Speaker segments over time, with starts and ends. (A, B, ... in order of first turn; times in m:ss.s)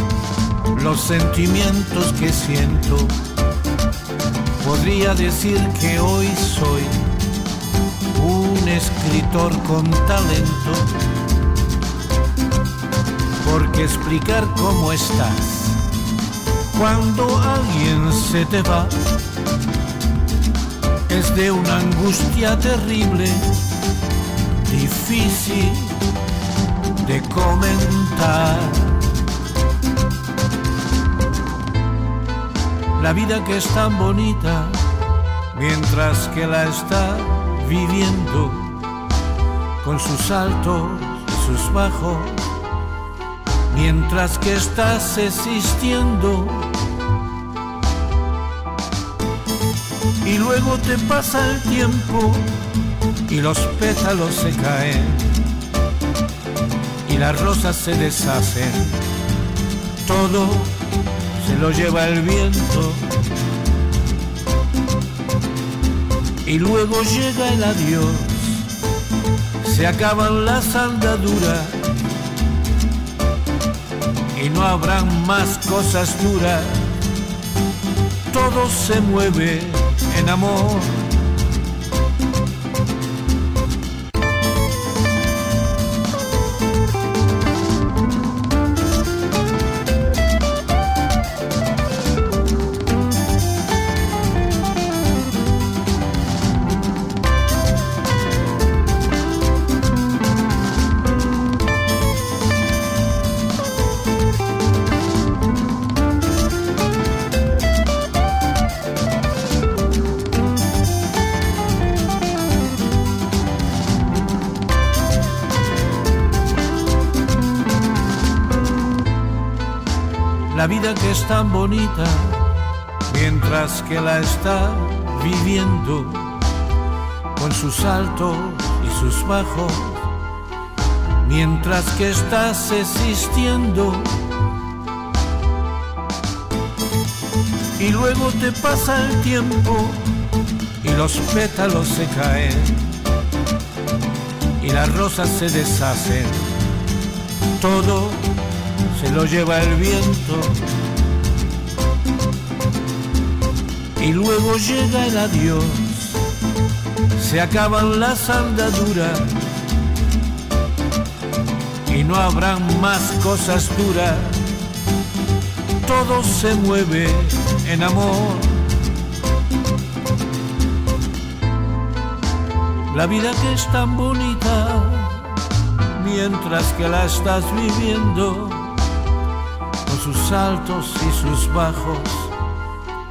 0:00.7-0:03.2 A
0:04.6-0:07.2 A
0:08.1-0:11.1 A
0:13.4-0:15.8 A
0:16.7-0:19.2 A
0:21.1-0:23.7 A
0:24.5-0:26.1 A
0:27.0-0:29.2 A
0:32.9-0:35.0 A
0:35.5-0:38.8 A
0:39.8-0:42.6 A
0:43.7-0:46.9 A
0:50.2-0:55.7 A
0:57.0-0:59.1 A
1:00.0-1:03.2 A
1:06.4-1:08.7 A
1:09.6-1:12.1 A
1:14.3-1:17.0 A
1:18.3-1:21.3 A
2:00.5-2:06.5 A
2:07.3-2:10.2 A
2:11.2-2:14.3 A
2:17.8-2:23.1 A
2:24.6-2:26.7 A
2:27.5-2:30.8 A
2:34.0-2:36.3 A
2:37.1-2:39.6 A
2:41.8-2:44.6 A
2:45.8-2:48.8 A
2:52.8-2:58.9 A
2:59.8-3:02.4 A